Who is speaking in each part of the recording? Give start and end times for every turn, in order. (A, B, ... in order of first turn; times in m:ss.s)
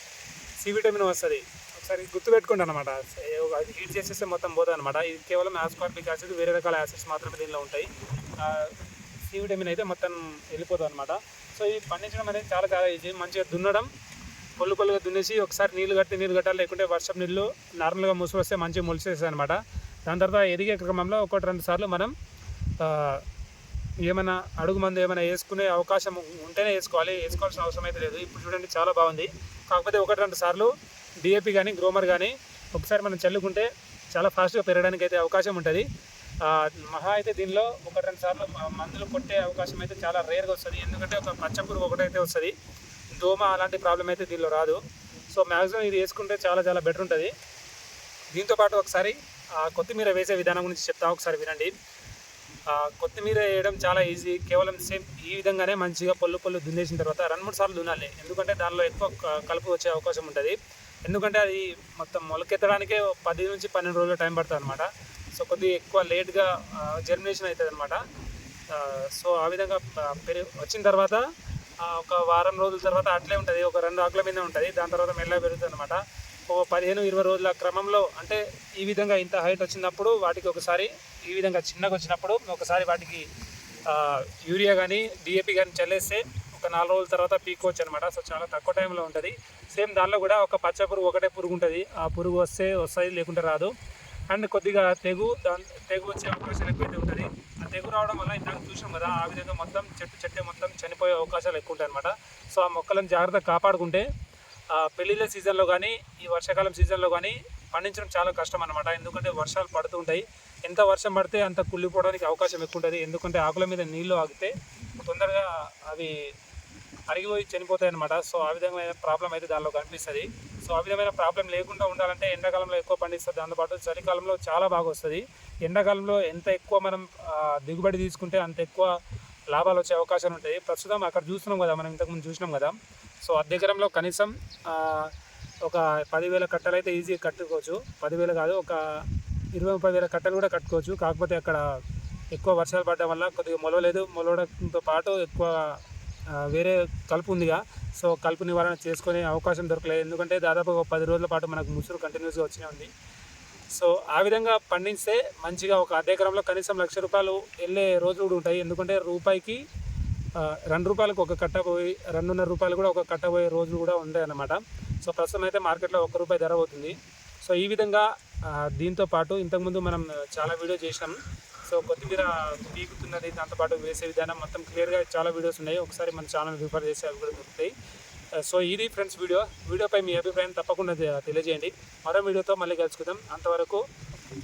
0:00.6-0:08.7 A
0:09.3-0:13.9 A
0:14.6-0:22.2 A
0:22.8-0:23.2 A
0:24.0-0:30.7 A
0:31.2-0:35.8 A
0:36.4-0:42.5 A
0:43.2-0:44.8 A
0:45.3-0:47.3 A
0:48.3-0:51.7 A
0:52.7-1:08.0 A
1:08.7-1:11.2 A
1:11.8-1:23.2 A
1:23.9-1:33.7 A
1:34.3-1:44.1 A
1:44.7-1:54.5 A
1:55.0-1:56.1 A
1:57.1-2:08.9 A
2:09.5-2:12.8 A
2:13.3-2:15.1 A
2:15.7-2:18.8 A
2:19.6-2:21.6 A
2:22.3-2:25.8 A
2:26.4-2:32.9 A
2:33.8-2:39.6 A
2:40.4-2:57.7 A
2:58.4-3:03.8 A